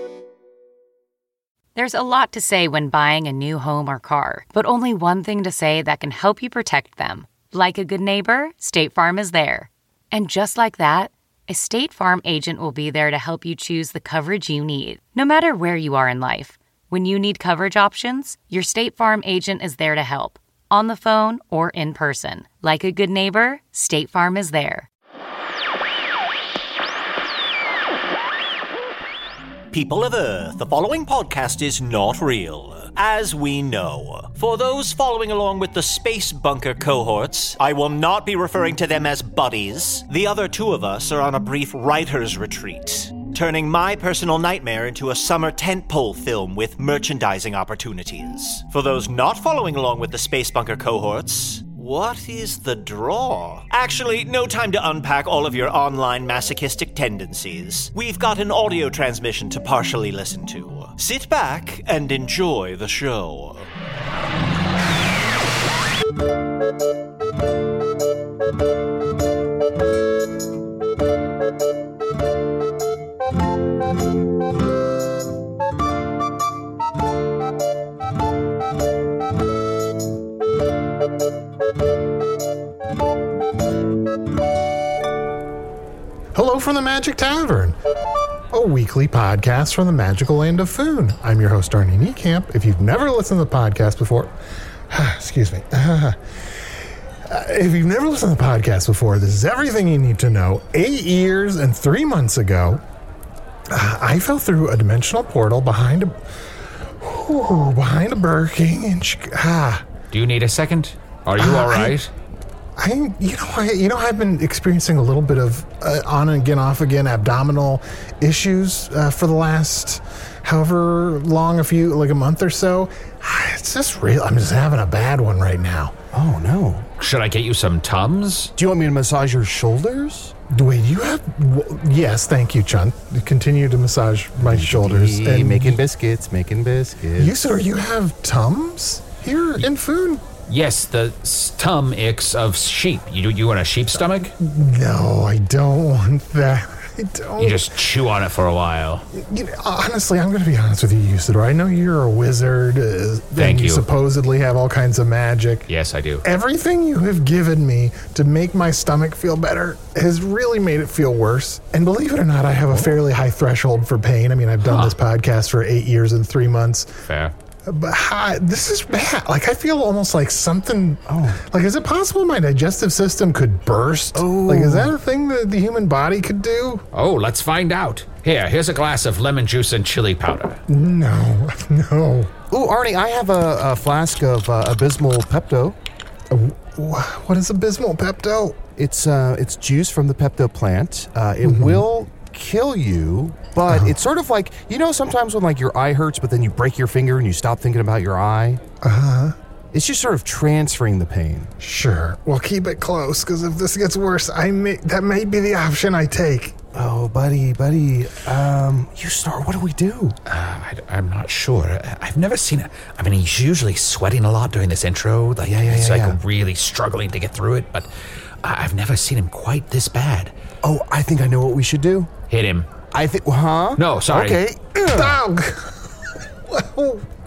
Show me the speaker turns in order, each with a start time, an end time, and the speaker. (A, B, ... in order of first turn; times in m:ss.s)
0:01.7-0:24.9 A
0:29.7-1:03.7 B
1:26.3-1:27.8 C
1:28.5-1:34.3 C
1:34.9-1:36.2 C
1:37.3-1:42.8 C
1:43.7-1:46.2 C
1:47.0-1:49.8 C
1:50.1-1:52.1 D
1:51.4-1:52.0 C
1:52.8-2:06.0 C
2:06.1-2:06.9 E
2:07.0-2:08.5 D
2:08.6-2:10.3 E
2:10.5-2:15.8 C
2:14.4-2:17.4 E
2:17.2-2:20.2 C
2:20.5-2:24.3 D
2:24.4-2:27.7 C
2:27.4-2:29.0 D
2:29.1-2:35.7 C
2:33.4-2:33.8 D
2:35.7-2:36.2 D
2:36.2-2:46.9 C
2:44.6-2:44.9 D
2:47.0-2:47.3 D
2:47.6-2:56.8 C
2:51.0-2:51.4 E
2:54.1-2:55.0 E
2:56.9-3:00.6 D
3:00.7-3:02.3 C
3:02.5-3:05.8 E
3:06.3-3:08.6 C
3:08.8-3:18.6 E
3:11.4-3:11.8 C
3:18.8-3:19.4 C
3:19.7-3:21.5 E
3:21.6-3:26.6 C
3:26.7-3:30.2 E
3:30.2-3:37.9 D
3:35.4-3:36.2 E
3:38.4-3:40.3 D
3:40.6-3:42.1 E
3:42.3-3:42.7 D
3:42.9-3:45.2 E
3:43.8-3:44.4 D
3:44.8-3:45.9 C
3:46.4-3:47.0 C